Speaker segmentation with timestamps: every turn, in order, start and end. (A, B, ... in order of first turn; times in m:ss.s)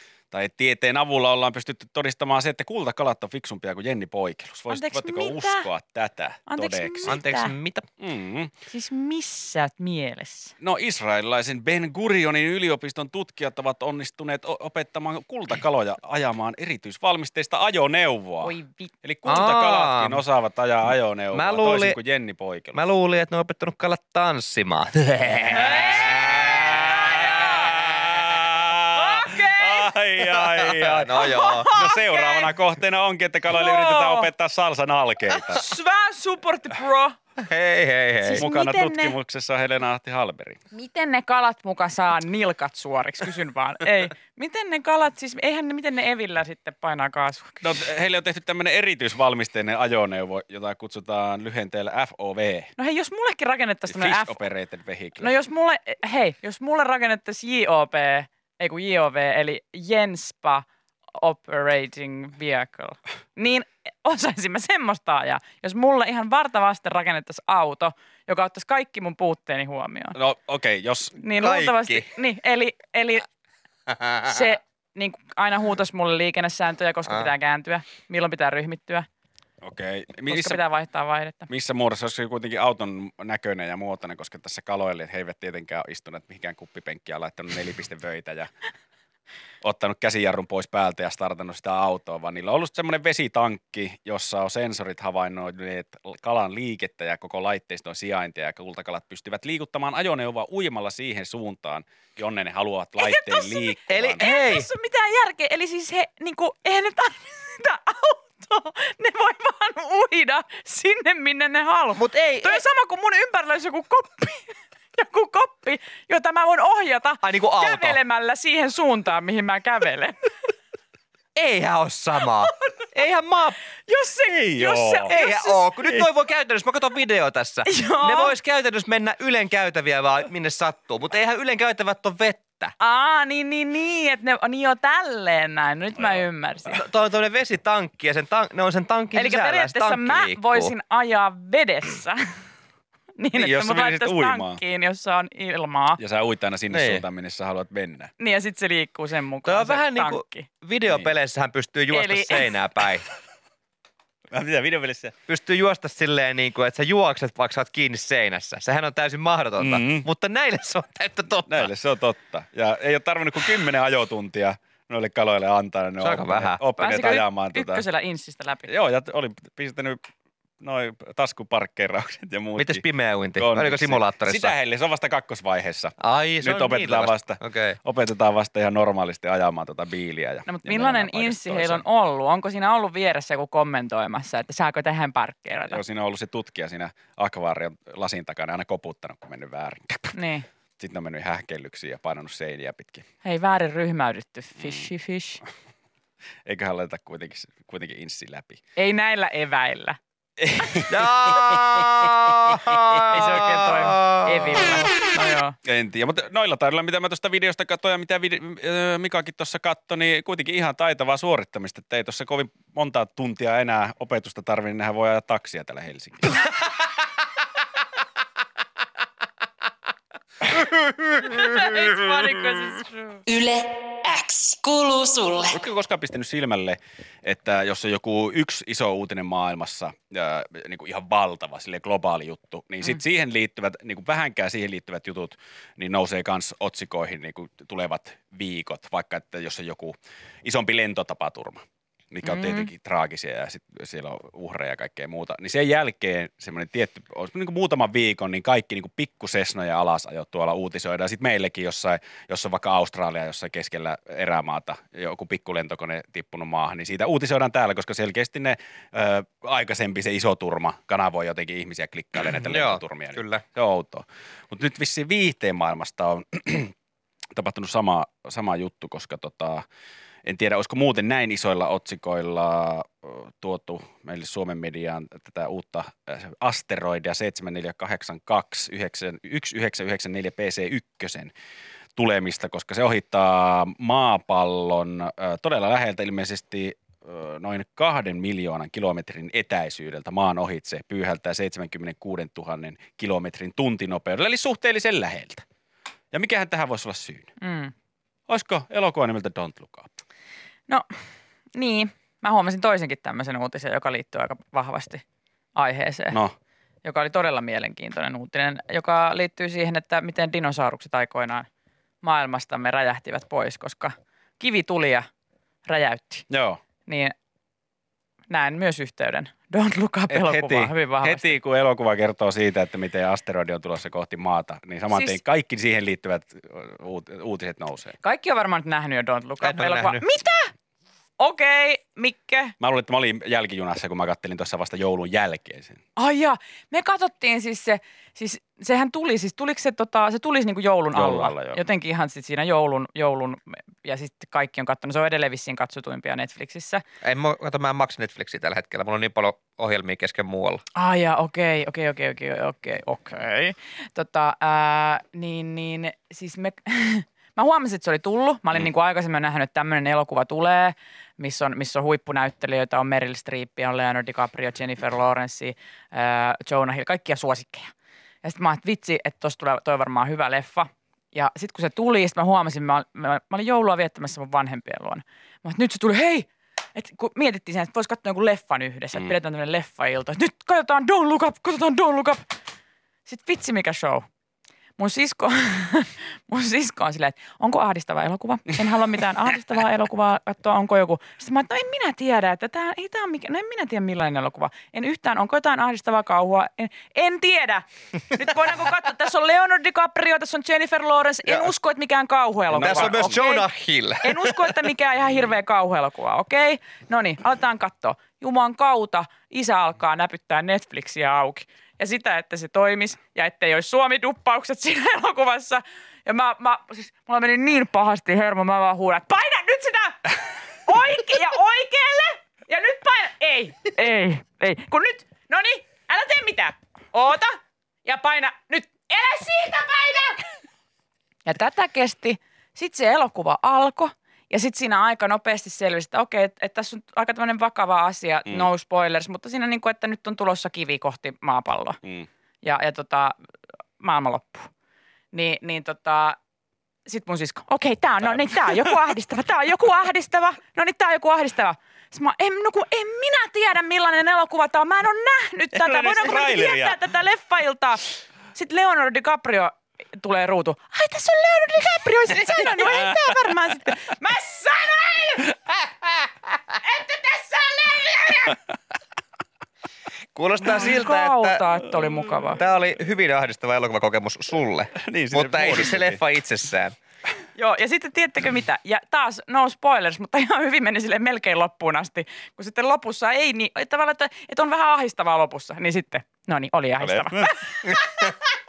0:00.3-0:07.2 A
0:04.7-0:05.7 B
0:06.5-0:07.5 B
0:07.0-0:07.9 C
0:08.0-0:08.5 A
0:08.7-0:10.5 B
0:10.6-0:22.8 A
0:18.4-0:18.9 B
0:19.2-0:20.2 C
0:21.3-0:22.0 C
0:22.7-0:28.1 C
0:25.5-0:27.8 B
0:26.0-0:35.6 A
0:28.9-0:29.9 B
0:30.3-0:31.7 C
0:31.1-0:32.5 B
0:33.5-0:34.3 B
0:35.5-0:37.2 B
0:37.4-0:38.4 C
0:38.2-0:39.1 B
0:38.3-0:40.6 A
0:40.7-0:47.7 B
0:47.6-0:52.7 A
0:52.8-0:54.4 B
0:53.9-0:55.3 A
0:55.2-1:10.2 B
1:10.2-1:11.2 A
1:11.2-1:13.3 B
1:11.4-1:12.1 C
1:13.9-1:14.4 C
1:14.2-1:19.1 B
1:19.6-1:20.6 A
1:20.3-1:21.5 B
1:21.5-1:28.5 A
1:29.6-1:44.2 A
1:43.0-2:00.2 B
1:43.9-1:44.7 C
1:51.9-1:52.6 C
1:57.2-1:58.0 C
2:01.3-2:03.6 C
2:03.9-2:05.7 B
2:04.3-2:05.1 A
2:05.1-2:12.7 C
2:07.6-2:08.3 B
2:12.8-2:16.8 B
2:16.7-2:20.7 C
2:19.1-2:22.3 B
2:23.2-2:26.0 B
2:23.3-2:24.6 A
2:26.0-2:28.1 A
2:26.7-2:27.0 C
2:28.2-2:30.5 B
2:29.4-2:33.0 C
2:31.9-2:32.5 B
2:34.3-2:35.1 A
2:35.3-2:41.7 C
2:39.6-2:40.1 A
2:41.5-2:47.8 A
2:46.0-2:46.6 C
2:46.8-2:48.7 B
2:48.7-2:50.0 A
2:50.6-2:52.8 A
2:52.6-2:54.5 C
2:53.4-3:01.8 A
2:56.0-2:57.8 C
3:00.5-3:05.8 B
3:05.7-3:10.2 A
3:10.1-3:10.5 B
3:10.8-3:13.0 A
3:13.2-3:15.4 B
3:14.6-3:14.9 A
3:16.4-3:18.6 A
3:18.8-3:20.0 B
3:20.4-3:21.3 A
3:20.9-3:24.7 C
3:23.1-3:25.6 B
3:25.6-3:36.5 A
3:41.2-3:43.2 B
3:43.3-3:45.6 D
3:45.5-4:01.6 A
4:02.1-4:26.7 A
4:02.2-4:02.7 B
4:22.2-4:23.4 C
4:27.3-4:29.6 A
4:30.2-4:41.3 A
4:42.0-4:55.4 A
4:56.1-4:57.3 A
4:57.4-4:57.7 B
4:58.3-4:59.9 A
5:00.7-5:00.9 B
5:01.5-5:05.0 B
5:05.6-5:06.2 B
5:06.8-5:11.5 B
5:12.0-5:15.1 B
5:15.6-5:16.2 B
5:16.3-5:16.6 A
5:16.9-5:17.1 B
5:18.3-5:21.4 B
5:20.1-5:28.0 A
5:24.9-5:25.2 B
5:28.0-5:30.5 B
5:29.4-5:30.1 C
5:31.2-5:32.5 B
5:32.6-5:35.8 A
5:36.0-5:46.8 B
5:40.9-5:41.6 A
5:47.0-5:50.6 C
5:50.7-6:22.3 B
6:23.0-6:24.0 B
6:24.8-6:43.5 B
6:41.2-6:41.5 C
6:42.5-6:43.2 A
6:42.5-6:44.6 C
6:44.0-7:10.3 B
7:11.2-7:21.8 B
7:22.4-7:23.2 B
7:23.8-7:24.5 B
7:25.1-7:26.2 B
7:26.8-7:45.3 B
7:28.1-7:28.7 A
7:35.5-7:36.8 A
7:42.6-7:43.0 A
7:46.6-7:48.4 B
7:50.1-7:51.4 C
7:50.4-7:52.4 B
7:52.4-7:56.8 C
7:54.8-7:56.0 A
7:57.4-8:07.5 B
8:06.8-8:08.1 A